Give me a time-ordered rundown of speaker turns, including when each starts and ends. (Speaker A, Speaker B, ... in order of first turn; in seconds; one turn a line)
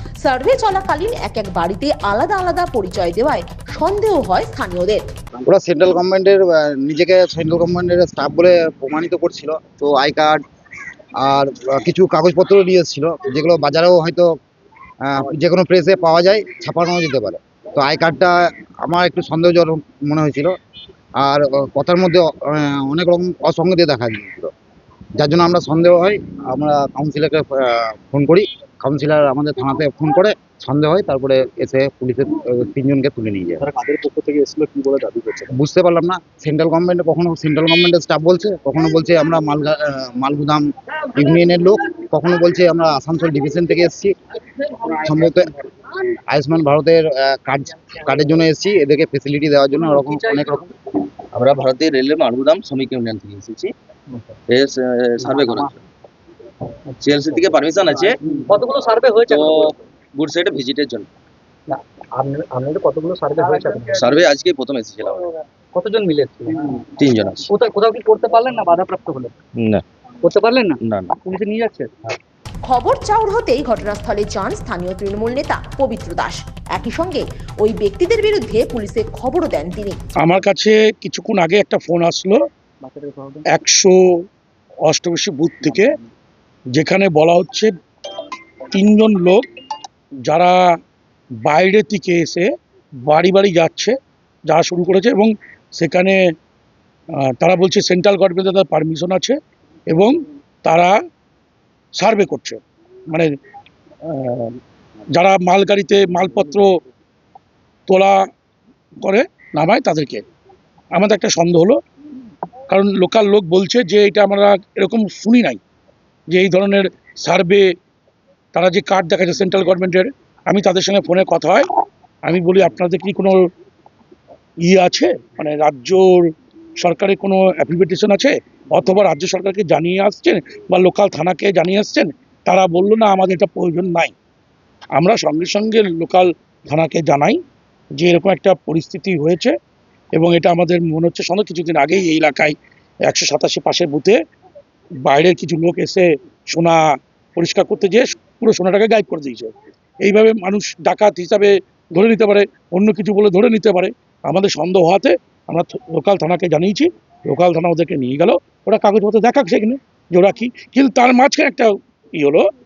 Speaker A: 0.2-5.0
Speaker B: 5.4-10.4
Speaker B: 11.2-14.3
Speaker B: 15.1-20.5
Speaker B: 21.2-24.5
Speaker B: 25.2-33.6
Speaker C: 33.6-35.5
Speaker B: 35.5-44.1
Speaker B: 44.8-45.5
Speaker B: 46.3-50.7
Speaker C: 49.8-50.5
Speaker D: 51.3-53.7
Speaker D: 54.5-55.8
Speaker C: 55.3-55.6
Speaker D: 57.0-58.2
Speaker C: 58.5-59.7
Speaker D: 59.3-61.1
Speaker C: 61.7-64.1
Speaker D: 63.9-65.3
Speaker C: 65.7-66.8
Speaker D: 67.0-67.5
Speaker C: 67.5-69.3
Speaker D: 69.6-69.8
Speaker C: 70.2-71.9
Speaker D: 70.8-71.2
Speaker A: 72.7-80.0
Speaker E: 80.2-82.4
Speaker C: 82.8-83.5
Speaker E: 83.5-83.9
Speaker E: 84.8-85.9
Speaker E: 86.7-87.7
Speaker E: 88.7-89.4
Speaker E: 90.3-90.5
Speaker E: 91.5-92.5
Speaker E: 93.0-93.9
Speaker E: 94.5-96.2
Speaker E: 97.4-99.4
Speaker E: 99.9-100.9
Speaker E: 102.0-102.6
Speaker E: 104.1-104.5
Speaker E: 105.1-106.7
Speaker E: 107.9-108.1
Speaker E: 109.0-110.2
Speaker E: 111.0-111.8
Speaker E: 112.7-115.6
Speaker E: 116.3-117.6
Speaker E: 118.5-121.7
Speaker E: 122.3-123.4
Speaker E: 124.7-126.2
Speaker E: 126.8-134.1
Speaker E: 135.0-137.4
Speaker E: 138.0-139.5
Speaker E: 140.2-142.6
Speaker E: 143.1-144.2
Speaker E: 145.1-146.8
Speaker E: 147.3-162.4